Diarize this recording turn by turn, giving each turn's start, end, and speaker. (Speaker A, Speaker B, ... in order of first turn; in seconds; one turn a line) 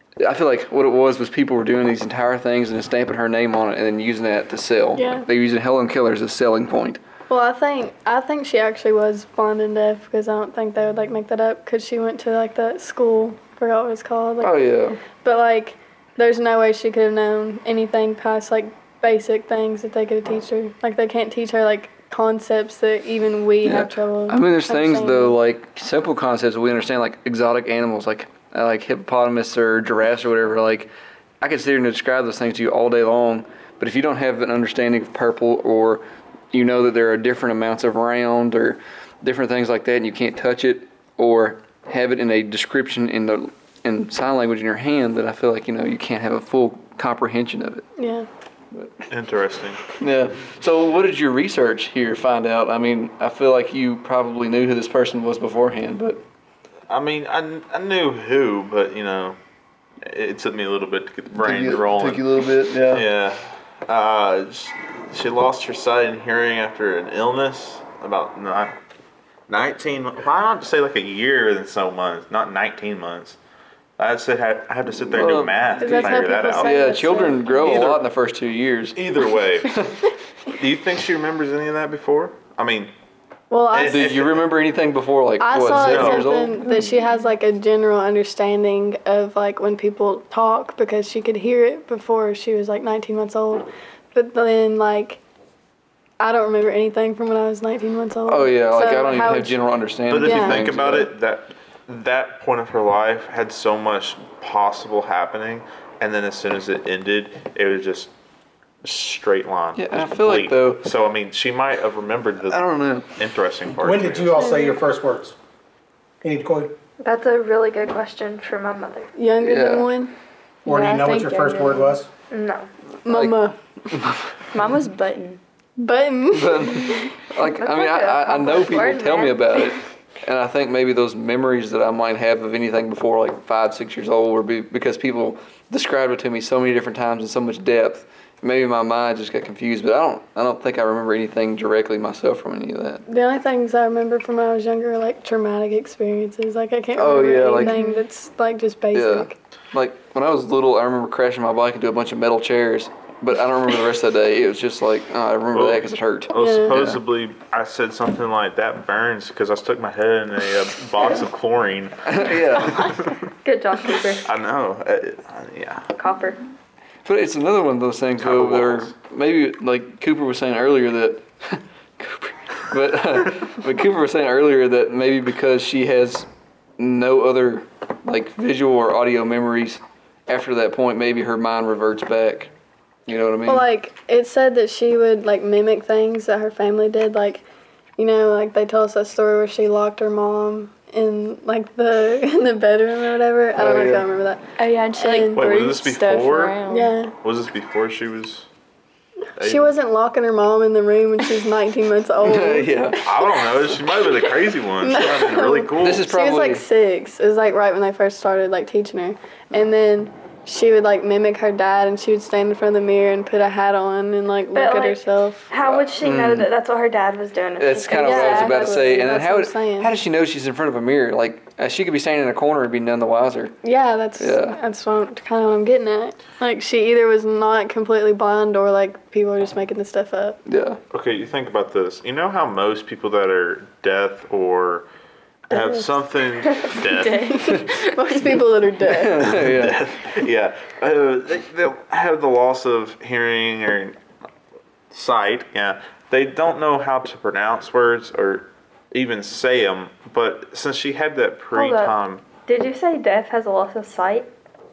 Speaker A: 0.2-7.0
Speaker B: 5.0-5.3
Speaker B: 7.3-14.6
Speaker A: 14.4-15.0
Speaker B: 15.2-25.4
Speaker A: 23.6-30.9
Speaker A: 31.4-47.9
Speaker B: 48.0-48.3
Speaker A: 48.7-49.0
Speaker C: 49.1-49.8
Speaker A: 49.9-56.2
Speaker C: 56.9-59.4
Speaker C: 60.0-62.2
Speaker A: 61.3-63.1
Speaker C: 62.9-68.7
Speaker C: 69.5-73.4
Speaker C: 74.0-76.8
Speaker A: 75.1-79.0
Speaker B: 75.8-77.7
Speaker C: 77.6-78.0
Speaker C: 78.9-79.9
Speaker C: 80.5-82.9
Speaker B: 83.5-84.2
Speaker C: 83.7-84.4
Speaker A: 83.7-86.8
Speaker B: 85.4-95.2
Speaker C: 85.7-86.3
Speaker B: 96.2-99.6
Speaker A: 98.3-101.1
Speaker C: 100.1-108.1
Speaker B: 100.2-100.7
Speaker C: 108.8-114.5
Speaker A: 109.8-110.8
Speaker A: 112.5-113.1
Speaker D: 113.7-115.3
Speaker B: 114.4-114.7
Speaker D: 116.2-116.8
Speaker E: 117.0-119.1
Speaker B: 119.2-120.1
Speaker A: 119.4-119.9
Speaker D: 120.6-122.1
Speaker E: 120.7-121.7
Speaker B: 120.7-121.7
Speaker E: 122.3-122.7
Speaker B: 123.0-123.5
Speaker A: 123.0-124.3
Speaker F: 124.5-125.4
Speaker B: 125.8-127.1
Speaker A: 126.3-143.0
Speaker E: 127.4-129.7
Speaker B: 143.1-149.3
Speaker A: 146.9-147.8
Speaker F: 147.6-148.0
Speaker A: 148.9-157.0
Speaker C: 155.5-162.2
Speaker B: 156.3-156.7
Speaker A: 162.1-162.9
Speaker E: 162.7-164.3
Speaker C: 162.7-163.0
Speaker C: 164.2-165.9
Speaker E: 165.9-166.4
Speaker A: 167.0-176.3
Speaker C: 168.2-168.9
Speaker A: 176.8-182.5
Speaker A: 183.1-183.7
Speaker B: 183.4-187.4
Speaker B: 188.0-195.4
Speaker A: 193.6-194.1
Speaker F: 194.6-196.9
Speaker C: 195.3-196.6
Speaker B: 196.7-197.1
Speaker C: 197.2-198.5
Speaker B: 199.3-203.0
Speaker C: 199.4-199.7
Speaker A: 202.2-203.7
Speaker C: 203.0-206.0
Speaker B: 204.8-215.5
Speaker A: 205.8-206.6
Speaker E: 214.5-218.9
Speaker A: 215.6-216.5
Speaker A: 217.6-223.5
Speaker B: 218.0-219.9
Speaker B: 223.6-230.4
Speaker A: 224.2-224.6
Speaker A: 230.4-230.8
Speaker C: 230.9-234.9
Speaker C: 235.5-237.2
Speaker B: 235.5-235.9
Speaker F: 236.9-238.3
Speaker B: 237.0-239.4
Speaker A: 238.9-239.8
Speaker C: 239.2-244.0
Speaker C: 244.9-252.2
Speaker E: 251.5-254.3